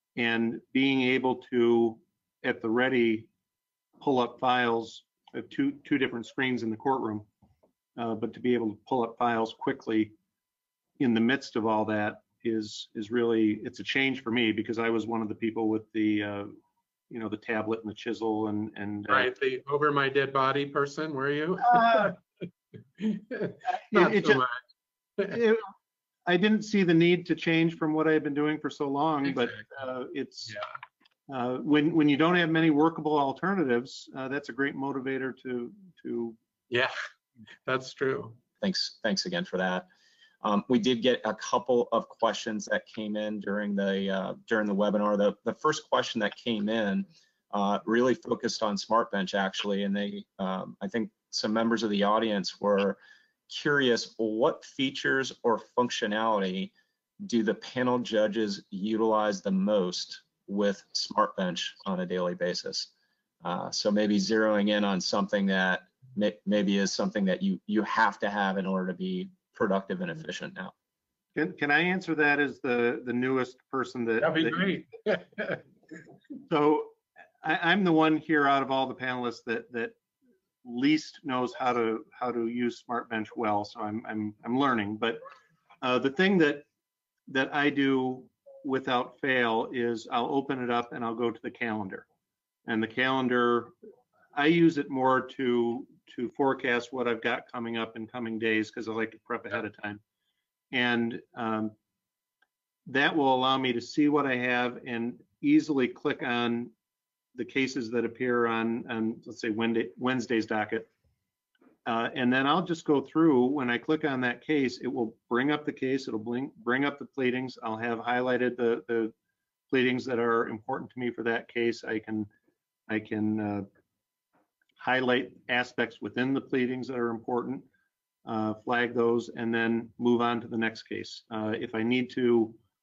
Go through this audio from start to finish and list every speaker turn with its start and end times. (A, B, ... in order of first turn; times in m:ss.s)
0:00.2-0:03.3 A
0:04.0-0:07.2 A
0:08.0-0:10.1 A
0:11.0-0:16.6 A
0:17.1-0:19.3 A
0:19.1-0:22.2 B
0:21.6-0:22.2 A
0:23.0-0:24.6 B
0:23.6-0:24.4 A
0:25.2-0:25.7 A
0:26.2-0:30.6 A
0:29.3-0:29.6 B
0:31.3-0:36.4 A
0:36.7-0:36.9 B
0:37.6-0:38.4 B
0:38.6-0:39.9 C
0:40.4-0:56.7 C
0:57.2-1:02.9 C
1:03.4-1:10.7 C
1:11.4-1:14.8 A
1:14.2-1:15.6 B
1:16.5-1:20.0 A
1:20.6-1:25.2 A
1:25.8-1:26.6 A
1:27.3-1:32.0 A
1:32.6-1:33.7 A
1:34.3-1:40.0 A
1:40.7-1:41.7 A
1:42.8-1:46.7 A
1:47.3-1:50.9 A
1:51.8-1:59.1 A
1:59.7-2:02.3 A
2:02.9-2:03.7 A
2:04.8-2:07.6 A
2:08.2-2:12.6 A